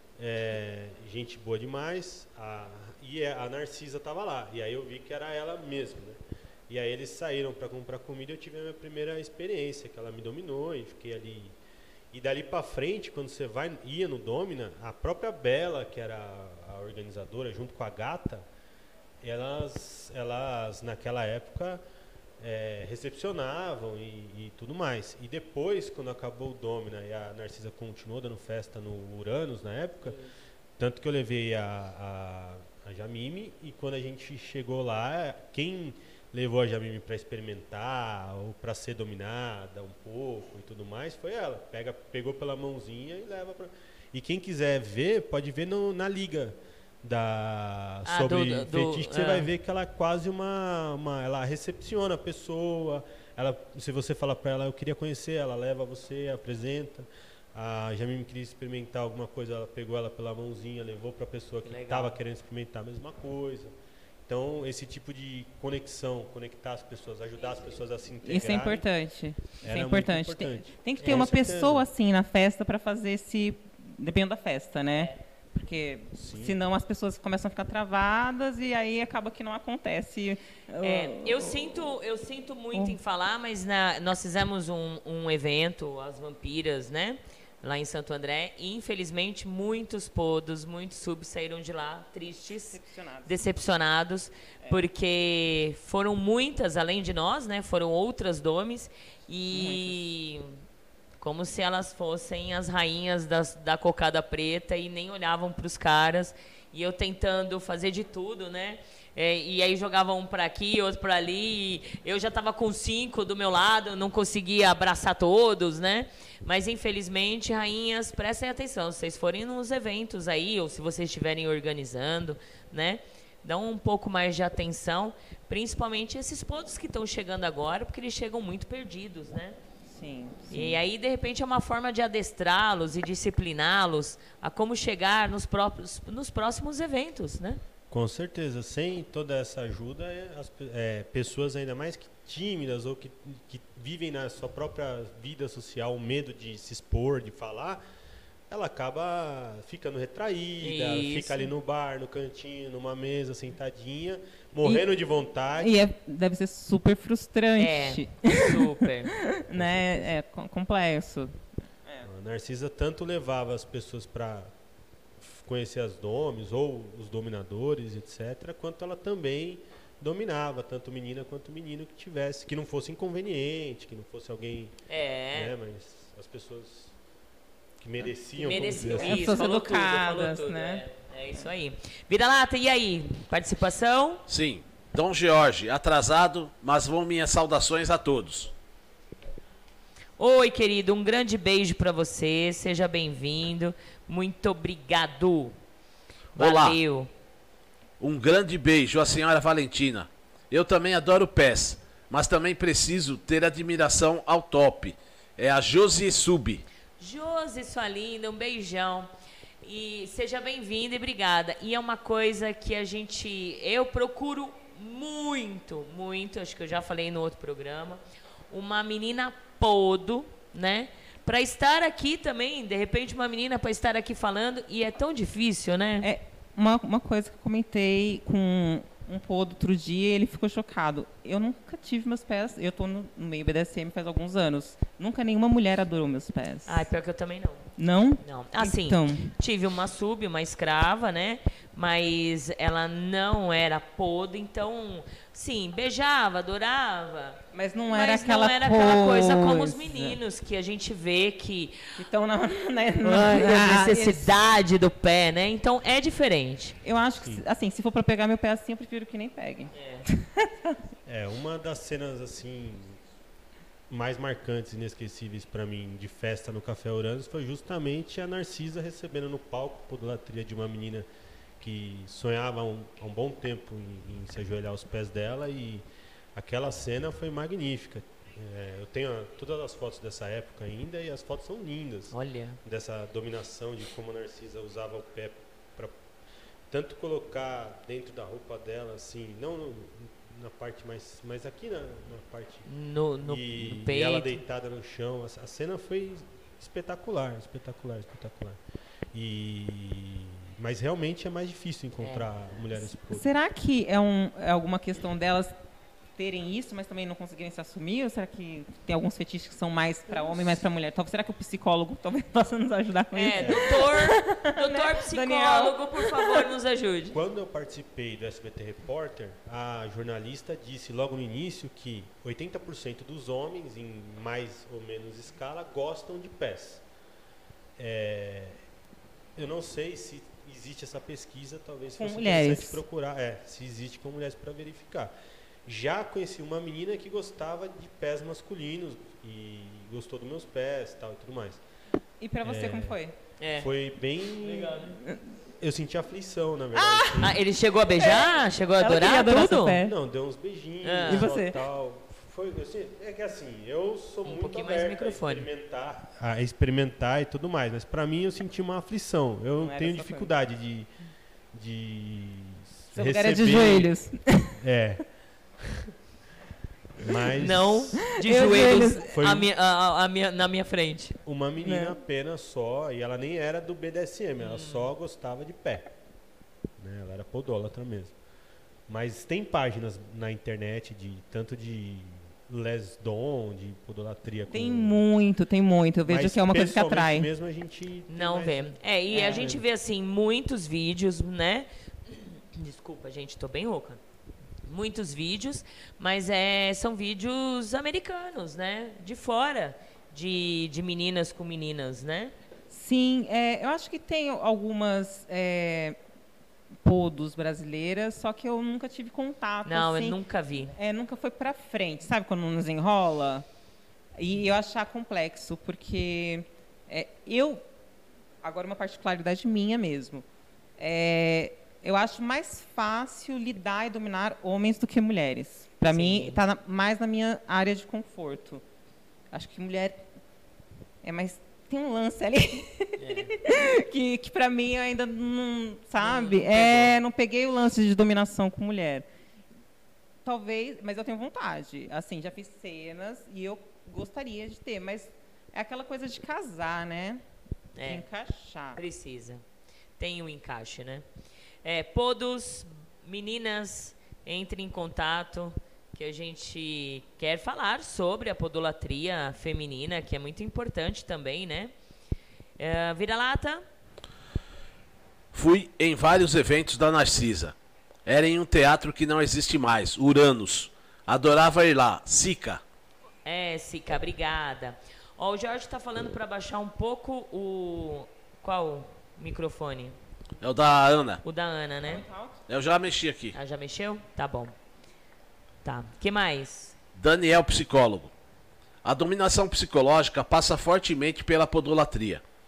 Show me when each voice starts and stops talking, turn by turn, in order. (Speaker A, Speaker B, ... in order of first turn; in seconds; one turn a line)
Speaker A: 0.2-11.6
Speaker A: 12.1-18.4
Speaker A: 19.2-21.8
Speaker A: 22.4-30.2
Speaker B: 30.0-30.3
Speaker A: 30.8-63.7
Speaker B: 48.0-49.5
Speaker B: 61.6-62.2
Speaker A: 64.3-68.8
Speaker B: 67.4-67.8
Speaker C: 68.2-81.9
Speaker A: 69.6-71.9
Speaker A: 76.1-76.6
Speaker B: 80.8-100.4
Speaker C: 92.7-93.4
Speaker C: 99.5-100.0
Speaker B: 101.2-129.6
Speaker C: 129.8-130.8
Speaker B: 130.5-137.6
Speaker A: 137.9-147.8
Speaker A: 148.5-155.7
Speaker B: 150.6-151.5
Speaker C: 155.6-158.7
Speaker B: 157.6-159.1
Speaker C: 159.3-162.1
Speaker A: 159.5-160.1
Speaker A: 162.0-164.5
Speaker A: 165.2-174.8
Speaker B: 174.9-175.5
Speaker A: 175.3-176.9
Speaker A: 177.8-179.3
Speaker B: 178.3-184.2
Speaker C: 178.8-180.8
Speaker D: 184.3-188.5
Speaker B: 190.2-195.5
Speaker D: 196.3-196.8
Speaker B: 196.3-197.1
Speaker D: 198.0-206.6
Speaker B: 207.0-209.1
Speaker B: 209.6-226.1
Speaker C: 226.0-236.9
Speaker B: 236.7-237.6
Speaker C: 237.8-239.3
Speaker B: 238.2-251.8
Speaker C: 247.5-250.2
Speaker C: 252.0-254.3
Speaker B: 253.0-256.8
Speaker C: 256.8-260.8
Speaker B: 259.7-260.1
Speaker A: 261.1-263.0
Speaker A: 263.9-271.1
Speaker A: 271.6-286.0
Speaker B: 282.1-282.6
Speaker A: 286.7-292.6
Speaker B: 292.7-294.4
Speaker A: 293.2-298.6
Speaker A: 299.1-303.2
Speaker B: 302.0-302.3
Speaker C: 303.1-305.5
Speaker C: 306.2-316.5
Speaker B: 313.1-317.2
Speaker A: 313.4-313.9
Speaker A: 317.1-326.8
Speaker A: 327.8-328.6
Speaker A: 329.4-335.1
Speaker C: 332.0-332.8
Speaker A: 335.6-341.6
Speaker C: 342.2-343.1
Speaker A: 342.4-343.0
Speaker B: 343.4-343.7
Speaker A: 343.5-344.9
Speaker B: 344.4-344.9
Speaker C: 344.9-345.2
Speaker A: 345.6-347.4
Speaker C: 346.7-347.3
Speaker B: 347.2-349.8
Speaker C: 348.0-349.9
Speaker A: 349.8-360.9
Speaker B: 350.8-351.3
Speaker C: 351.1-351.6
Speaker B: 354.2-355.5
Speaker C: 359.6-360.3
Speaker A: 361.5-363.9
Speaker C: 362.9-364.5
Speaker A: 364.6-365.0
Speaker A: 367.0-368.1
Speaker B: 367.4-371.2
Speaker C: 368.1-369.1
Speaker A: 369.0-369.5
Speaker A: 371.2-375.9
Speaker C: 371.6-371.9
Speaker B: 374.4-374.9
Speaker A: 376.8-378.1
Speaker A: 378.9-385.0
Speaker C: 384.5-387.3
Speaker A: 386.1-389.6
Speaker B: 388.1-394.0
Speaker C: 389.1-389.5
Speaker B: 394.6-402.3
Speaker C: 402.7-406.0
Speaker C: 406.8-410.2
Speaker B: 409.6-410.7
Speaker C: 410.7-413.4
Speaker C: 414.1-417.6
Speaker C: 418.4-420.2
Speaker C: 420.8-428.6
Speaker B: 425.9-426.4
Speaker C: 429.3-430.0
Speaker C: 431.0-439.1
Speaker B: 433.0-433.3
Speaker B: 436.0-437.0
Speaker C: 440.2-447.2
Speaker B: 447.8-448.0
Speaker C: 447.8-448.8
Speaker B: 448.7-449.4
Speaker B: 450.0-451.1
Speaker B: 451.6-461.7
Speaker B: 462.6-463.6
Speaker D: 465.3-467.5
Speaker D: 468.1-472.6
Speaker B: 473.2-479.9
Speaker D: 480.4-481.2
Speaker B: 481.2-482.0
Speaker C: 481.8-482.4
Speaker D: 482.5-483.4
Speaker B: 483.3-484.5
Speaker B: 485.6-486.7
Speaker D: 486.9-488.1
Speaker D: 488.8-492.2